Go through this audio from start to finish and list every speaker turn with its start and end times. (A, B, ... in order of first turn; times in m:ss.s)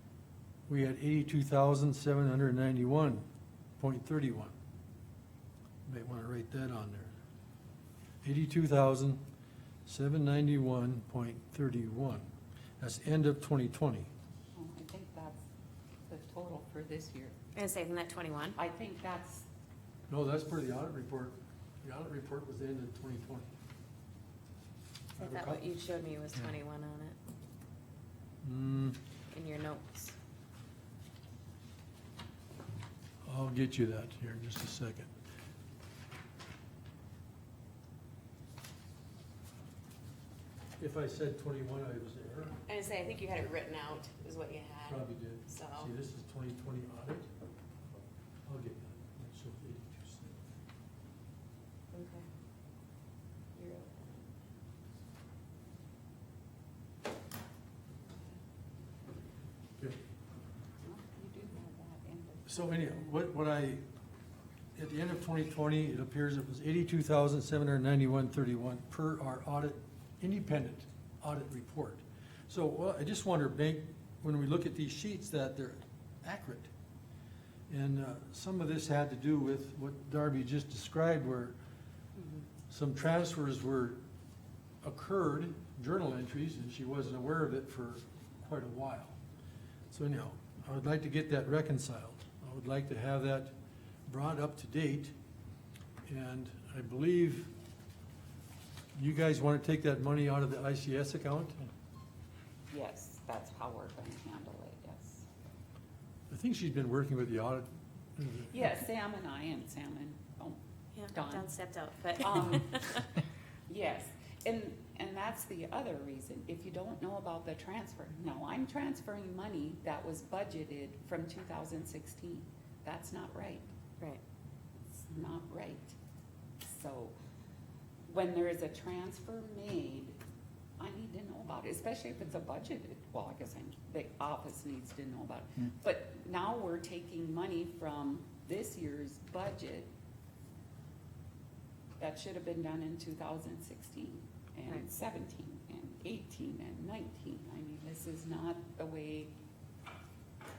0:00.7-0:03.2 A
0:03.8-0:04.5 A
0:05.8-0:07.1 A
0:08.2-0:09.2 A
0:09.8-0:12.3 A
0:12.8-0:14.1 A
0:14.5-0:15.4 B
0:16.1-0:17.4 B
0:17.5-0:18.6 C
0:18.6-0:19.4 B
0:20.1-0:23.5 A
0:25.2-0:27.2 C
0:25.2-0:25.7 A
0:28.4-0:29.0 A
0:29.3-0:30.1 C
0:33.2-0:35.1 A
0:40.8-0:42.6 A
0:42.6-0:45.9 C
0:44.8-0:47.3 A
0:48.4-0:50.6 A
0:51.9-0:52.2 C
0:53.5-0:54.3 C
1:00.8-1:03.0 B
1:02.5-1:03.8 A
1:04.7-1:16.7 A
1:17.7-1:21.6 A
1:22.2-1:22.4 C
1:22.7-1:24.0 A
1:24.8-1:29.2 A
1:29.9-1:33.5 A
1:34.1-1:35.1 A
1:36.1-1:37.5 A
1:38.9-1:41.7 A
1:42.7-1:45.2 B
1:46.3-1:48.5 A
1:48.5-1:50.6 B
1:50.9-1:53.1 C
1:51.1-1:51.5 B
1:52.2-1:53.0 B
1:53.7-2:03.6 B
2:04.9-2:06.0 B
2:06.6-2:07.1 B
2:08.1-2:10.2 B
2:10.8-2:19.9 B
2:22.0-2:29.3 B